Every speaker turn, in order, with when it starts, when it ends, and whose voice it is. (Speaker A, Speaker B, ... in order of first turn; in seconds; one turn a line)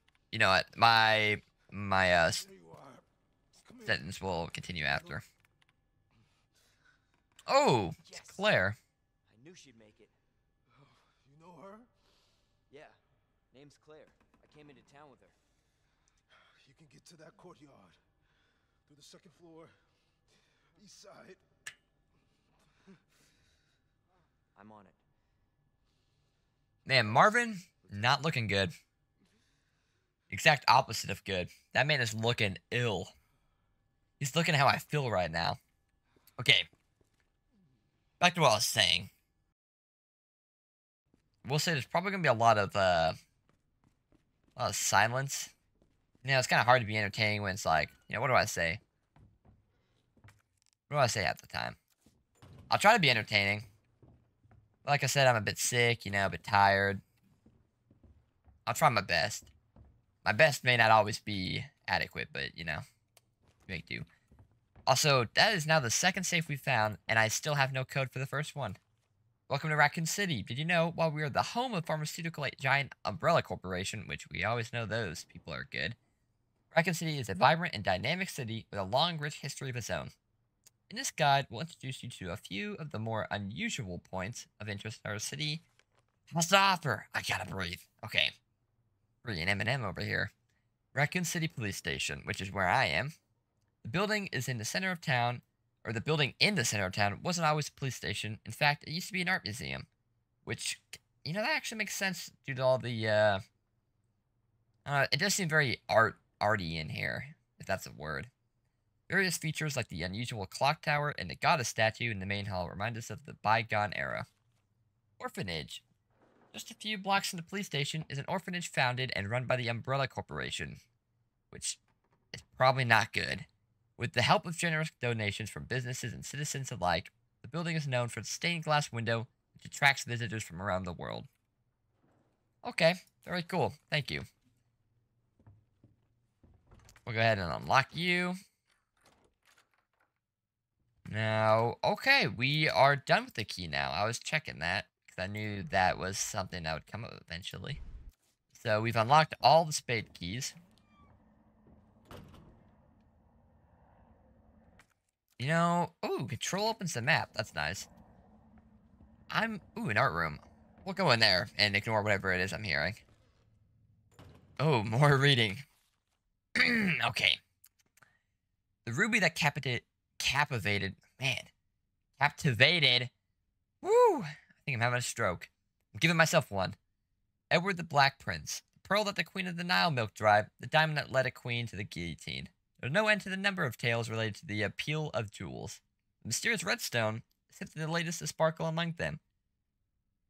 Speaker A: 0.3-2.5
Speaker B: 2.4-4.0
Speaker A: 3.8-5.2
Speaker A: 7.5-8.8
Speaker C: 8.0-8.5
Speaker C: 9.3-10.1
Speaker B: 10.8-11.9
Speaker C: 12.7-13.0
Speaker C: 13.5-15.4
Speaker B: 16.6-18.0
Speaker B: 18.9-19.8
Speaker B: 20.8-21.4
Speaker C: 24.5-25.0
Speaker A: 26.9-28.7
Speaker C: 27.8-28.2
Speaker A: 30.3-33.1
Speaker A: 34.2-35.6
Speaker A: 36.4-36.7
Speaker A: 38.2-39.1
Speaker A: 41.4-43.2
Speaker A: 44.5-45.5
Speaker A: 46.2-48.8
Speaker A: 50.9-51.8
Speaker A: 52.7-53.7
Speaker A: 54.9-57.0
Speaker A: 58.6-59.5
Speaker A: 60.2-62.8
Speaker A: 63.7-64.0
Speaker A: 64.9-68.8
Speaker A: 69.5-76.0
Speaker A: 76.7-80.1
Speaker A: 80.9-85.6
Speaker A: 86.3-88.3
Speaker A: 89.2-90.3
Speaker A: 90.9-93.1
Speaker A: 93.8-99.9
Speaker A: 100.5-103.4
Speaker A: 104.8-108.3
Speaker A: 109.1-114.3
Speaker A: 115.2-115.8
Speaker A: 116.5-120.8
Speaker A: 121.5-121.8
Speaker A: 122.3-123.5
Speaker A: 124.0-131.3
Speaker A: 132.6-134.2
Speaker A: 137.1-138.4
Speaker A: 141.1-147.8
Speaker A: 148.5-150.5
Speaker A: 155.4-157.9
Speaker A: 159.3-163.0
Speaker A: 164.6-165.6
Speaker A: 166.6-167.4
Speaker A: 168.8-171.5
Speaker A: 172.2-173.1
Speaker A: 173.8-176.8
Speaker A: 177.5-189.2